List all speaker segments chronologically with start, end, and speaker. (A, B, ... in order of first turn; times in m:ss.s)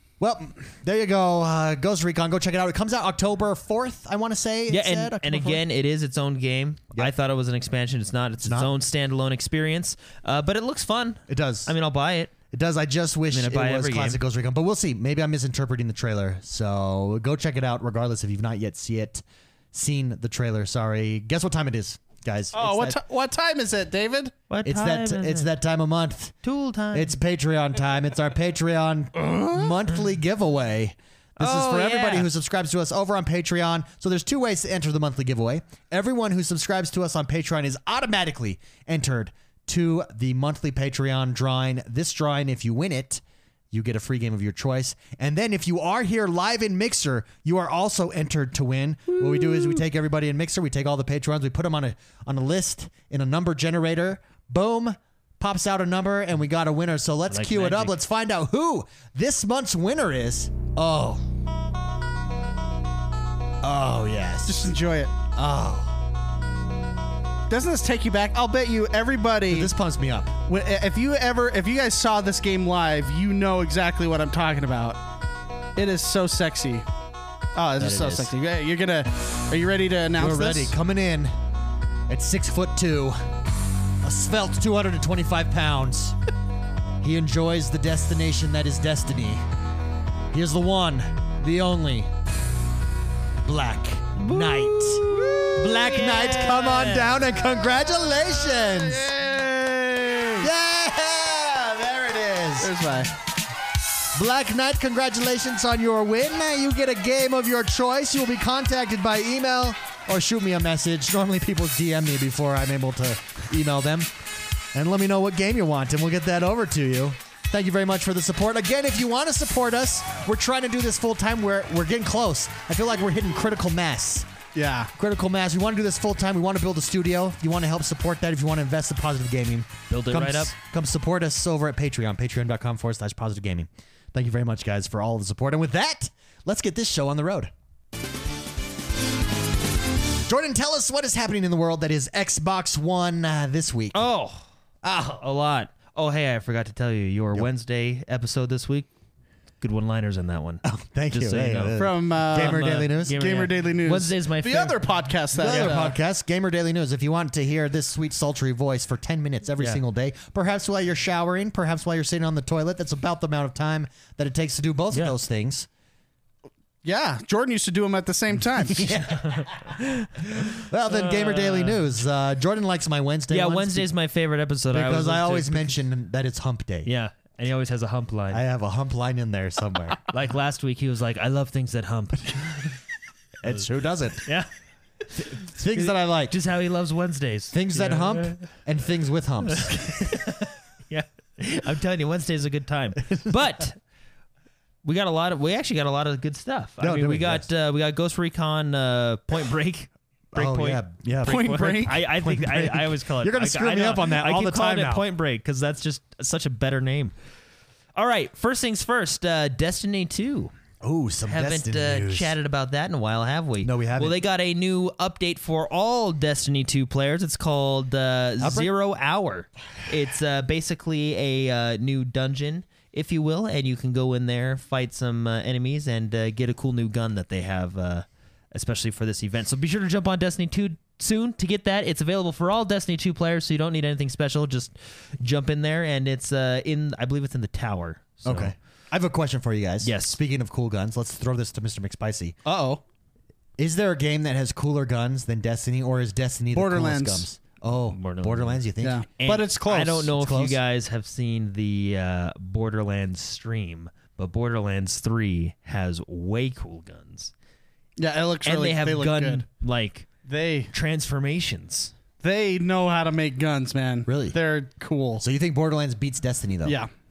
0:00.2-0:05.6 A
0:04.7-0:12.3 B
0:08.4-0:08.7 A
0:11.3-0:11.7 A
0:12.5-0:23.0 A
0:13.3-0:14.2 B
0:22.5-0:24.3 C
0:24.5-0:25.5 B
0:24.6-0:26.4 A
0:26.4-0:27.2 B
0:26.9-1:01.2 A
0:29.2-0:29.7 C
0:31.4-0:32.3 B
0:57.3-0:58.0 B
1:03.6-1:04.7 A
1:04.4-1:05.1 C
1:05.4-1:06.0 A
1:07.5-1:09.7 C
1:09.5-1:10.3 A
1:10.5-1:15.0 C
1:15.8-1:16.8 C
1:17.5-1:20.7 C
1:17.8-1:18.3 A
1:20.2-1:21.3 A
1:22.1-1:23.3 A
1:24.0-1:26.2 A
1:27.0-1:29.4 A
1:30.3-1:32.1 A
1:33.4-1:39.1 A
1:34.2-1:37.2 B
1:38.6-1:40.5 C
1:40.4-1:42.7 A
1:42.6-1:43.1 C
1:44.1-1:54.1 A
1:54.7-2:04.3 A
2:04.5-2:04.9 C
2:04.9-2:17.5 A
2:09.9-2:10.5 B
2:20.3-2:24.0 A
2:23.9-2:28.9 B
2:24.8-2:25.1 A
2:29.6-2:31.8 B
2:30.6-2:33.2 A
2:31.8-2:36.0 C
2:32.3-2:34.8 B
2:35.4-2:45.7 A
2:35.4-2:35.9 B
2:46.8-2:48.9 C
2:48.6-2:49.7 A
2:49.1-2:51.8 B
2:50.4-2:53.9 A
2:53.3-2:55.7 B
2:54.7-2:56.9 A
2:56.8-2:58.4 B
2:58.3-3:00.0 A
3:00.0-3:02.8 B
3:03.4-3:04.2 A
3:05.2-3:06.4 A
3:05.2-3:08.5 B
3:07.5-3:10.3 A
3:09.5-3:13.8 B
3:13.0-3:13.3 A
3:14.8-3:27.1 B
3:16.8-3:17.4 A
3:20.3-3:25.0 A
3:21.2-3:22.0 C
3:27.9-3:30.5 B
3:30.8-3:32.3 A
3:31.3-3:58.5 B
3:33.6-3:34.2 A
3:38.4-3:38.7 A
3:58.2-4:02.4 A
3:59.8-4:00.2 B
4:02.4-4:02.8 C
4:03.6-4:09.0 A
4:06.5-4:07.2 C
4:07.9-4:08.6 B
4:08.8-4:10.1 C
4:09.2-4:17.3 B
4:10.1-4:10.6 A
4:18.0-4:19.4 C
4:18.4-4:20.1 B
4:20.2-4:20.7 C
4:20.7-4:21.9 B
4:22.2-4:25.2 C
4:24.1-4:24.4 A
4:25.2-4:26.8 A